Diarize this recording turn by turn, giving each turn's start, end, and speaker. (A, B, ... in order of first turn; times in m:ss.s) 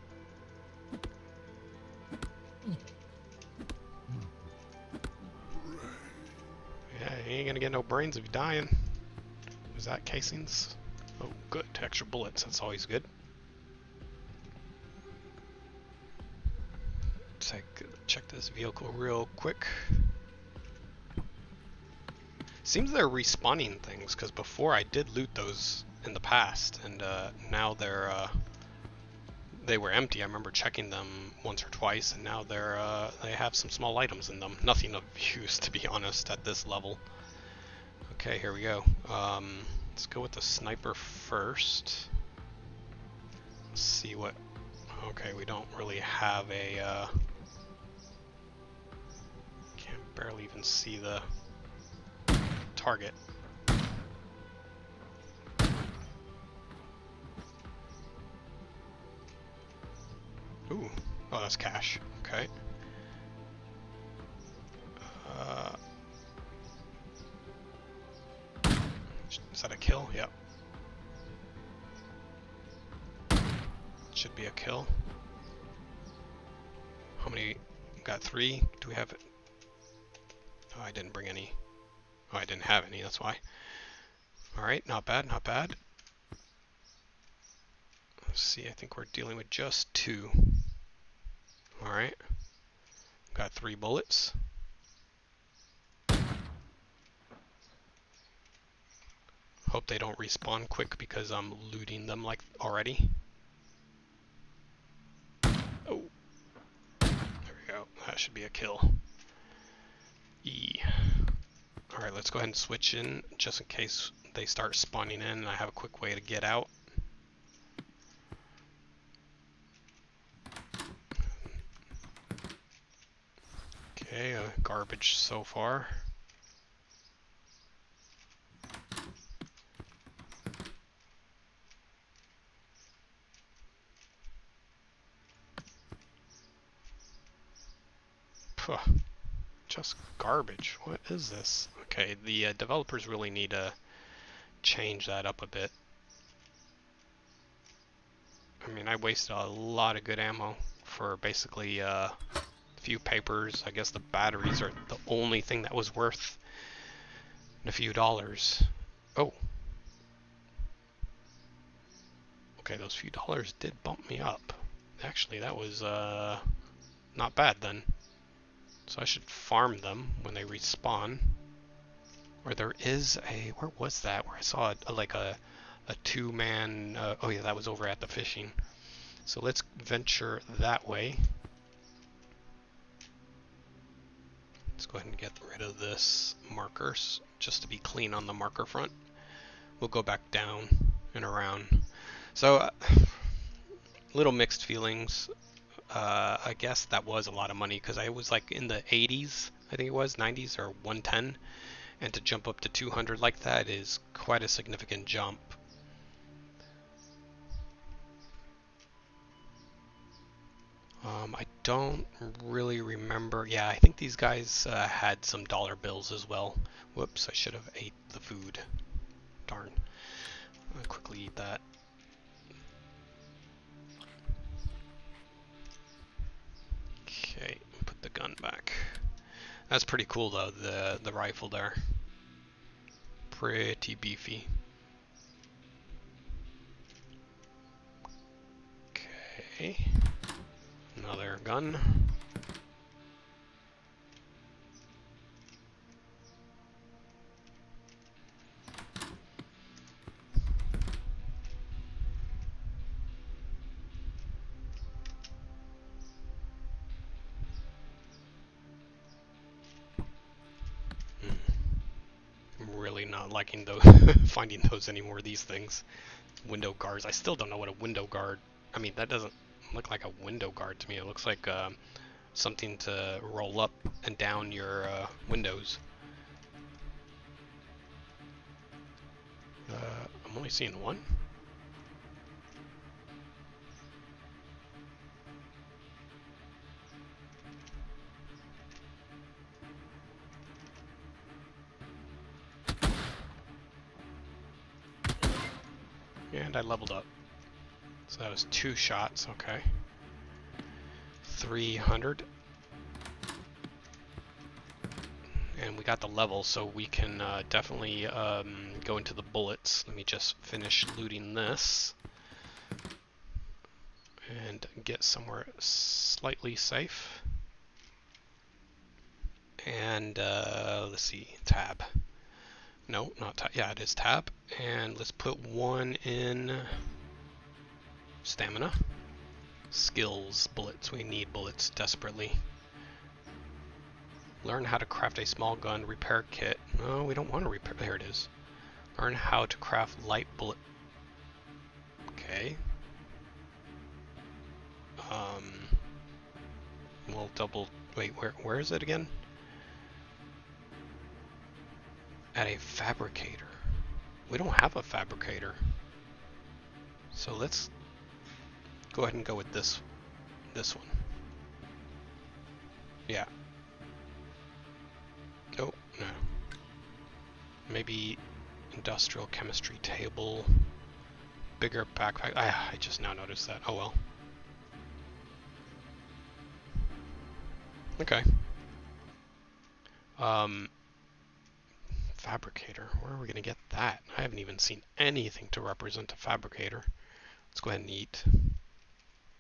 0:06.9-0:09.0 A
0:09.7-0:13.1 A
0:17.4-0:20.2 A
0:22.6-0:28.4 A
0:29.5-0:37.1 A
0:38.1-0:42.1 A
0:43.7-0:47.2 A
0:49.8-0:51.3 A
0:52.7-0:53.2 A
1:00.7-1:02.5 A
1:05.0-1:05.8 A
1:09.3-1:10.3 A
1:14.1-1:15.1 A
1:17.2-1:19.2 A
1:20.7-1:21.6 A
1:22.3-1:24.0 A
1:24.5-1:25.8 A
1:28.3-1:30.8 A
1:31.8-1:32.3 A
1:33.3-1:34.5 A
1:39.6-1:43.2 A
1:45.8-1:46.1 A
1:47.4-1:49.0 A
1:50.4-1:51.4 A
1:51.9-1:56.7 A
2:03.9-2:06.1 A
2:18.6-2:23.8 A
2:24.6-2:25.8 A
2:28.6-2:32.2 A
2:32.8-2:37.0 A
2:37.6-2:39.4 A
2:42.6-2:46.6 A
2:47.1-2:47.9 A
2:48.9-2:51.4 A
2:52.4-2:58.6 A
2:59.2-3:01.4 A
3:04.8-3:09.0 A
3:09.8-3:13.6 A
3:14.1-3:15.3 A
3:15.9-3:25.6 A
3:31.0-3:38.7 A
3:39.5-3:41.6 A
3:47.0-3:52.0 A
3:53.3-3:54.6 A
3:58.9-4:00.1 A
4:01.0-4:02.2 A
4:21.2-4:21.9 A
4:22.6-4:35.8 A
4:39.7-4:41.2 A
4:56.3-4:57.1 A
4:58.1-4:59.8 A
5:01.2-5:02.3 A
5:05.5-5:12.0 A
5:14.3-5:17.4 A
5:19.6-5:22.0 A
5:22.9-5:26.8 A
5:28.2-5:28.9 A
5:29.7-5:32.5 A
5:34.4-5:38.3 A
5:39.0-5:40.6 A
5:42.1-5:42.6 A
5:45.0-5:45.8 A
5:47.0-5:49.2 A
5:52.3-5:55.8 A
5:57.1-5:57.7 A
5:58.9-5:59.8 A
6:00.5-6:01.0 A
6:05.5-6:06.3 A
6:07.7-6:10.7 A
6:11.6-6:14.0 A
6:18.0-6:18.5 A
6:20.2-6:20.7 A
6:22.1-6:28.6 A